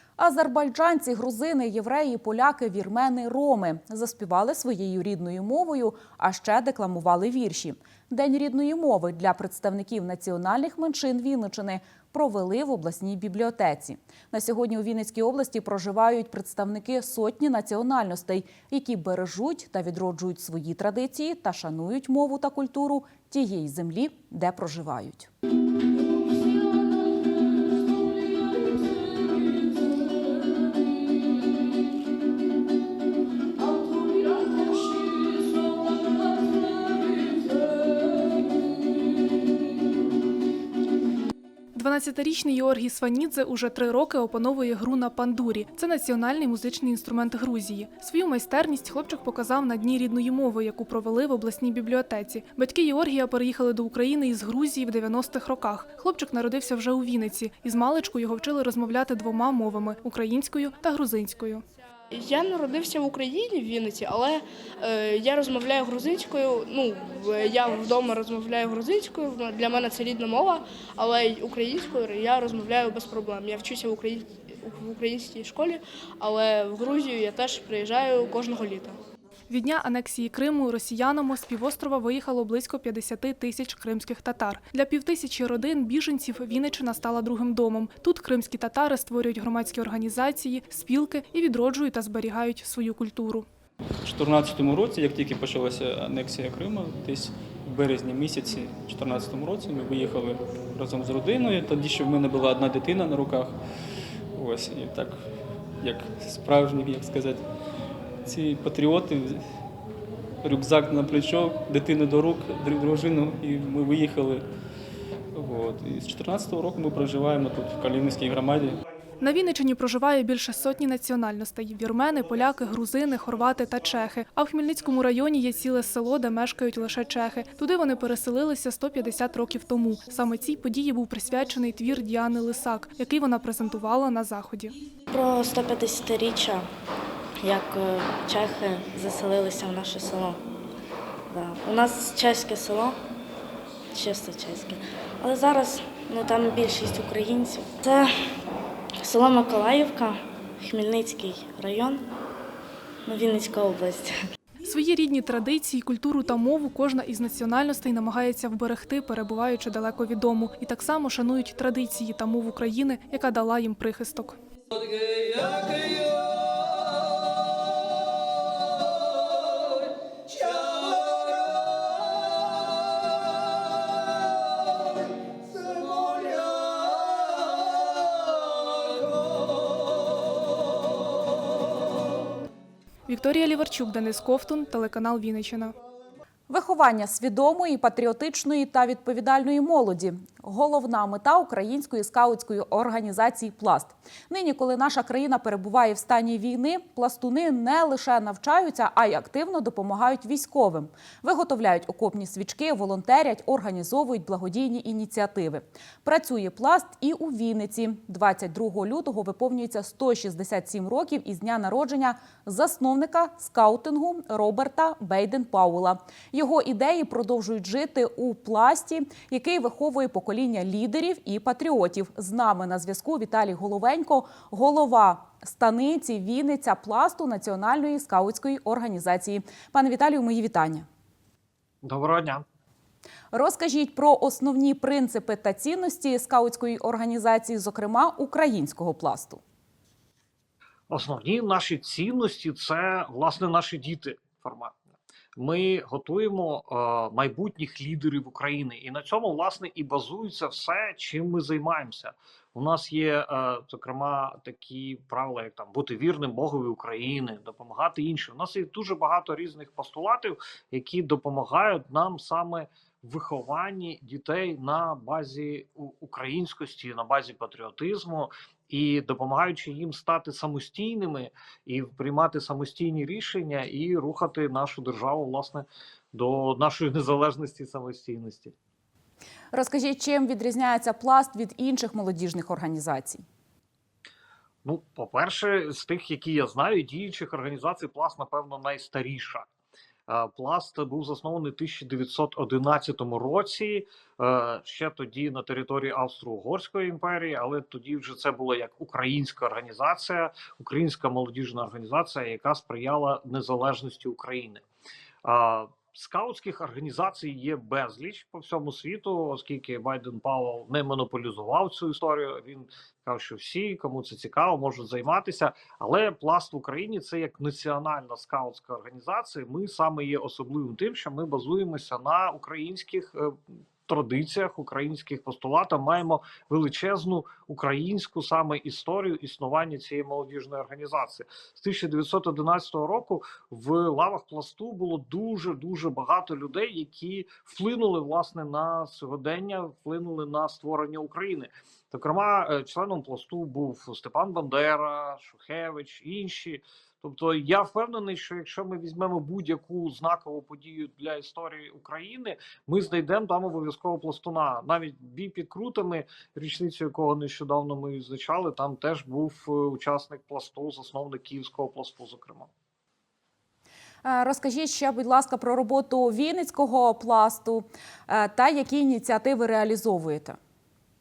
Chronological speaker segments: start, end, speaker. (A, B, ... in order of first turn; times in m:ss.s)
0:00.2-0:25.3 A
0:41.7-1:01.6 B
1:02.1-1:19.0 C
1:19.5-1:33.5 B
1:34.0-1:43.6 D
1:44.4-1:45.3 D
1:45.8-1:47.5 D
1:48.2-1:49.5 D
1:50.4-1:54.4 D
1:55.3-1:58.8 D
1:59.2-2:14.8 B
2:15.1-2:16.7 E
2:17.4-2:20.4 E
2:21.3-2:23.0 E
2:23.9-2:28.1 E
2:29.0-2:32.0 E
2:33.1-2:34.2 E
2:34.6-2:44.4 B
3:03.1-3:05.8 B
3:06.5-3:50.9 A
3:51.8-3:52.4 F
3:53.3-3:59.4 A
4:00.9-4:04.7 F
4:05.4-4:38.5 F
4:39.5-4:43.2 A
4:44.6-4:49.5 F
4:50.1-5:04.6 F
5:05.2-5:23.4 F
5:23.9-6:02.5 F
6:04.0-6:10.4 A